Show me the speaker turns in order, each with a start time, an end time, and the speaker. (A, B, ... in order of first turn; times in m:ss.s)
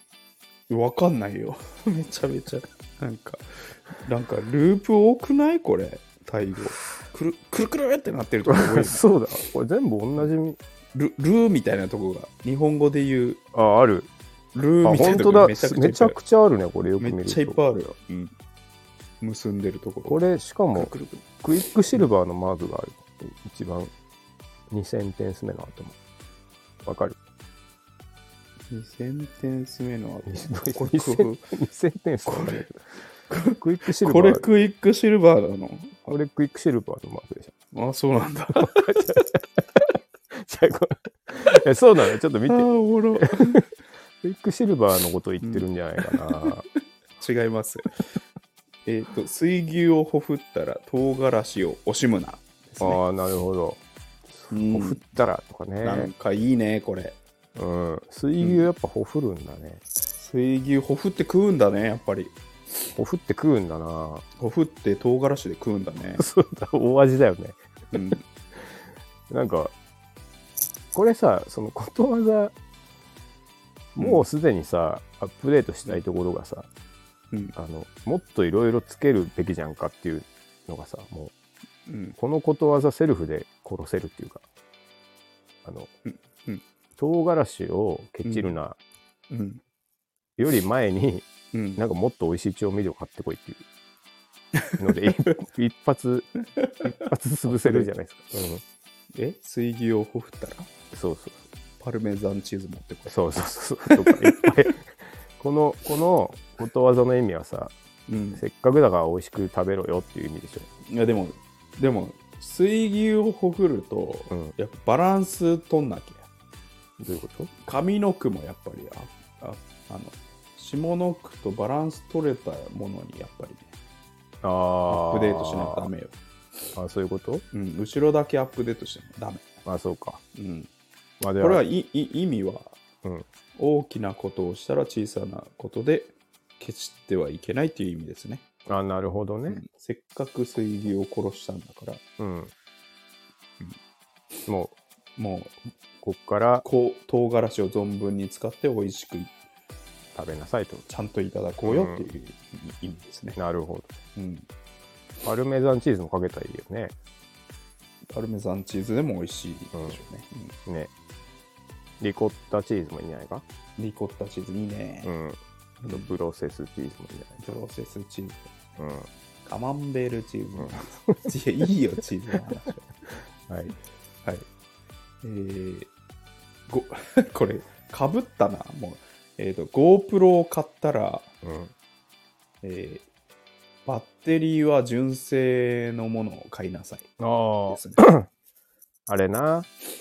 0:00.7-0:09.0 A
0:08.5-0:10.6 B
0:11.0-0:13.4 A
0:13.5-0:14.1 B
0:14.5-0:16.2 A
0:14.8-0:17.6 B
0:17.0-0:18.3 A
0:19.2-0:20.2 A
0:20.1-0:23.9 B
0:20.7-0:22.0 A
0:24.7-0:26.0 B
0:26.8-0:27.2 B
0:28.7-0:31.4 A
0:30.3-0:32.8 B
0:32.3-0:32.7 A
0:33.3-0:36.2 A
0:33.6-0:34.5 B
0:36.1-0:37.5 B
0:37.7-0:39.0 A
0:38.6-0:39.4 B
0:40.3-0:43.6 B
0:42.5-0:43.6 A
0:44.2-0:46.7 B
0:45.4-0:46.5 A
0:47.2-0:48.0 A
0:48.9-0:53.0 A
0:52.8-0:56.1 B
0:54.5-0:55.0 A
0:55.8-0:57.2 A
0:57.6-0:59.8 B
0:58.4-0:58.7 A
1:00.2-1:02.4 A
1:03.0-1:04.2 B
1:04.4-1:06.2 A
1:06.2-1:07.6 B
1:07.9-1:08.2 A
1:09.3-1:09.7 B
1:10.9-1:12.5 B
1:14.0-1:16.7 B
1:14.0-1:14.3 A
1:17.6-1:21.3 B
1:21.9-1:22.2 A
1:22.2-1:24.4 B
1:25.6-1:25.9 B
1:26.1-1:26.6 A
1:27.0-1:28.8 B
1:28.2-1:28.6 A
1:29.3-1:29.6 A
1:30.4-1:31.3 B
1:31.5-1:31.8 A
1:31.8-1:33.6 B
1:34.6-1:35.4 A
1:34.8-1:36.3 B
1:36.6-1:36.9 A
1:36.8-1:38.6 B
1:37.5-1:37.9 A
1:39.2-1:40.7 A
1:40.9-1:41.4 B
1:41.8-1:44.5 A
1:43.1-1:47.7 B
1:48.1-1:48.4 A
1:48.4-1:50.7 B
1:50.9-1:56.3 A
1:57.0-1:57.5 B
1:57.6-2:03.7 A
2:04.4-2:05.9 B
2:04.9-2:06.2 A
2:06.8-2:07.4 B
2:07.5-2:09.6 A
2:09.7-2:10.2 B
2:10.4-2:10.7 A
2:11.2-2:11.6 B
2:11.4-2:12.8 A
2:13.6-2:18.4 A
2:18.7-2:19.6 B
2:19.5-2:22.0 A
2:22.2-2:22.5 B
2:24.5-2:24.8 B
2:25.2-2:25.6 A
2:26.0-2:26.6 B
2:26.6-2:29.3 A
2:30.2-2:30.8 B
2:30.9-2:33.4 A
2:31.6-2:32.1 B
2:33.4-2:33.9 B
2:34.2-2:34.4 A
2:35.2-2:36.9 B
2:38.1-2:40.6 A
2:42.0-2:43.4 B
2:43.8-2:45.1 A
2:45.0-2:47.4 B
2:45.8-2:46.1 A
2:47.4-2:48.5 A
2:48.8-2:49.1 B
2:49.5-2:52.9 A
2:50.6-2:51.2 B
2:53.5-2:53.8 B
2:55.2-2:55.9 A
2:56.7-3:01.3 A
3:01.4-3:01.7 B
3:02.6-3:03.1 A
3:03.9-3:08.1 A
3:07.2-3:08.3 B
3:09.1-3:09.7 B